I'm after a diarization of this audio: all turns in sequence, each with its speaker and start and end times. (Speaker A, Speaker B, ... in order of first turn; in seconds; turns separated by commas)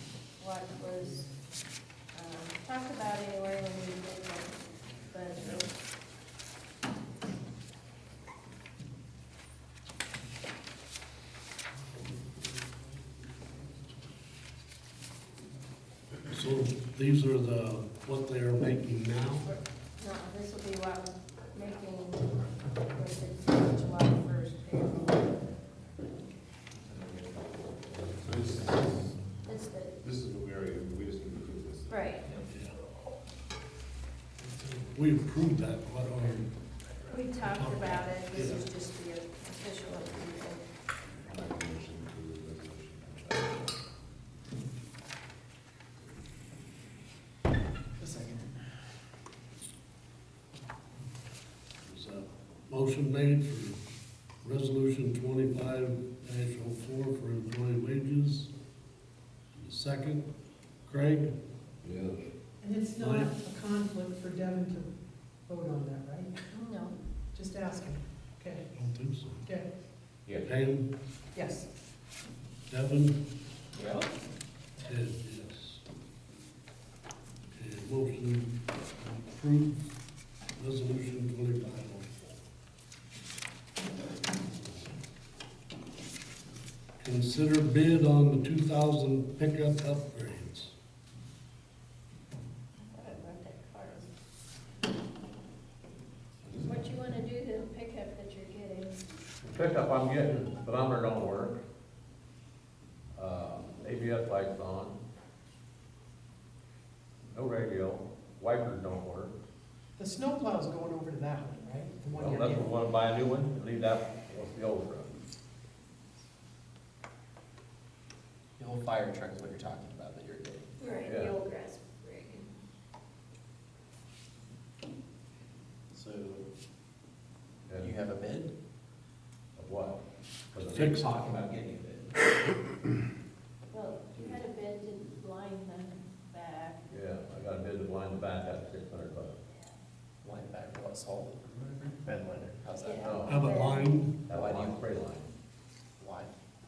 Speaker A: 0.4-1.3, Speaker A: 2.1-5.7, Speaker B: 16.3-19.5, Speaker A: 19.4-22.3, Speaker A: 22.9-25.4, Speaker C: 26.9-27.7, Speaker D: 28.0-29.2, Speaker A: 29.4-29.9, Speaker D: 30.0-32.1, Speaker A: 31.9-32.3, Speaker B: 32.5-32.8, Speaker B: 34.8-36.5, Speaker A: 37.1-40.6, Speaker B: 37.4-38.7, Speaker D: 41.0-43.8, Speaker C: 48.0-48.5, Speaker B: 51.8-53.8, Speaker B: 54.4-58.5, Speaker B: 59.5-60.3, Speaker B: 60.9-61.3, Speaker E: 61.9-62.1, Speaker F: 62.6-64.9, Speaker B: 63.0-63.3, Speaker F: 65.5-66.4, Speaker A: 66.5-67.0, Speaker F: 67.3-68.7, Speaker B: 68.8-69.5, Speaker B: 70.4-70.9, Speaker F: 71.3-71.7, Speaker B: 72.7-73.2, Speaker C: 73.8-74.1, Speaker B: 74.8-75.8, Speaker B: 77.5-79.9, Speaker B: 80.6-82.4, Speaker B: 84.5-84.9, Speaker B: 87.0-90.7, Speaker A: 92.8-94.1, Speaker A: 96.5-99.1, Speaker E: 99.4-101.6, Speaker E: 103.2-105.0, Speaker E: 107.3-109.3, Speaker F: 110.0-112.7, Speaker E: 112.2-115.1, Speaker C: 118.6-120.9, Speaker A: 120.8-122.5, Speaker E: 121.0-121.3, Speaker C: 125.9-126.5, Speaker C: 127.8-128.5, Speaker E: 129.6-130.0, Speaker E: 130.5-131.2, Speaker B: 130.6-131.3, Speaker C: 130.8-132.2, Speaker A: 133.7-136.8, Speaker E: 136.9-139.4, Speaker A: 139.5-139.7, Speaker C: 140.2-143.7, Speaker A: 142.8-143.9, Speaker E: 143.0-143.5, Speaker B: 143.3-144.2, Speaker E: 144.3-145.3, Speaker C: 144.3-144.8, Speaker C: 146.0-146.3